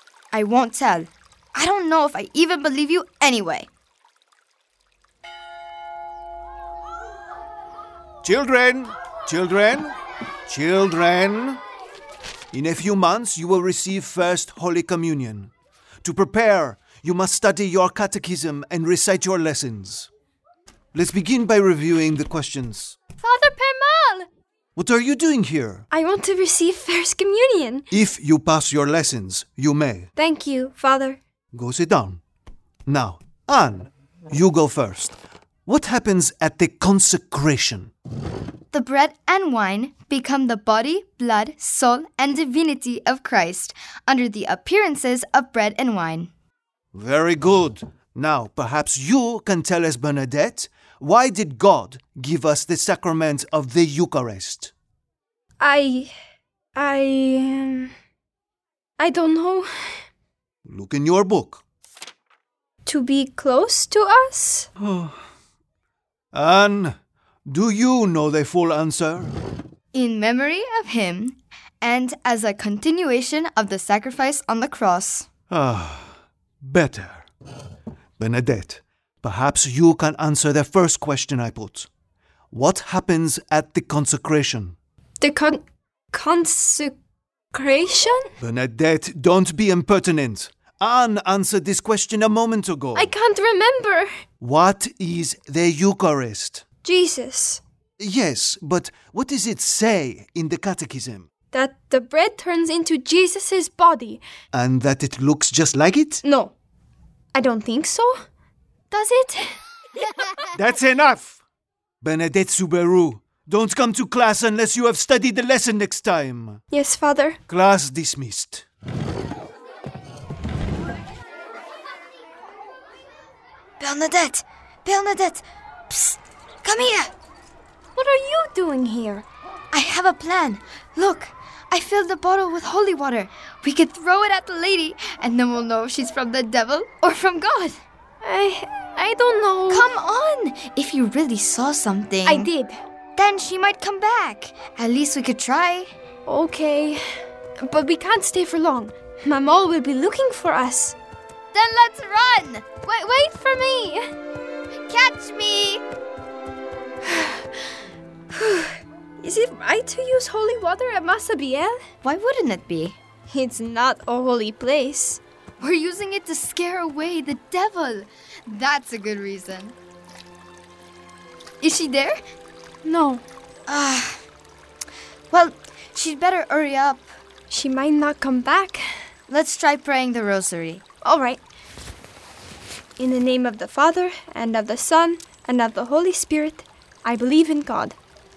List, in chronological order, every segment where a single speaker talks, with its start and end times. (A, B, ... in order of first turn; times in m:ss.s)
0:00.3-0:03.7 A
0:08.2-0:09.9 B
0:10.5-0:11.6 B
0:12.5-0:15.5 B
0:16.0-0:20.1 B
0:20.9-0:23.0 B
0:23.2-0:24.3 C
0:24.8-0:25.8 B
0:25.9-0:27.9 C
0:27.9-0:30.1 B
0:30.2-0:31.2 C
0:31.5-0:32.2 B
0:32.9-0:37.9 B
0:38.7-0:46.3 A
0:46.9-0:54.7 B
0:55.6-0:56.1 C
0:56.8-0:57.9 C
0:59.0-0:59.7 C
1:00.7-1:01.6 B
1:02.8-1:04.7 C
1:04.8-1:05.2 B
1:06.3-1:07.0 B
1:07.5-1:09.3 B
1:09.9-1:15.3 A
1:15.5-1:17.2 B
1:18.2-1:21.9 B
1:22.5-1:24.8 B
1:25.2-1:25.6 C
1:26.1-1:27.0 C
1:27.5-1:28.3 C
1:28.4-1:33.1 B
1:33.0-1:34.1 C
1:34.4-1:36.6 B
1:36.8-1:37.6 C
1:38.0-1:41.3 B
1:41.5-1:44.2 C
1:44.5-1:46.2 B
1:46.2-1:46.5 C
1:47.3-1:48.2 C
1:48.9-1:49.5 C
1:50.5-1:51.4 B
1:52.0-1:56.6 B
1:56.7-1:57.4 C
1:57.5-1:58.6 B
2:03.8-2:07.1 A
2:08.0-2:09.3 C
2:09.7-2:17.8 A
2:18.2-2:19.9 C
2:19.7-2:22.5 A
2:22.3-2:22.8 C
2:23.2-2:25.9 A
2:26.3-2:27.0 C
2:27.6-2:31.0 C
2:31.5-2:32.7 A
2:32.8-2:34.0 C
2:34.9-2:35.8 A
2:38.3-2:41.8 C
2:42.0-2:43.0 A
2:43.3-2:45.2 C
2:45.6-2:49.8 A
2:51.6-2:52.2 A
2:52.8-2:53.2 C
2:53.7-2:54.2 A
2:55.3-2:57.1 A
2:57.5-2:58.8 C
2:59.3-3:00.8 A
3:01.0-3:01.4 C
3:03.0-3:08.0 C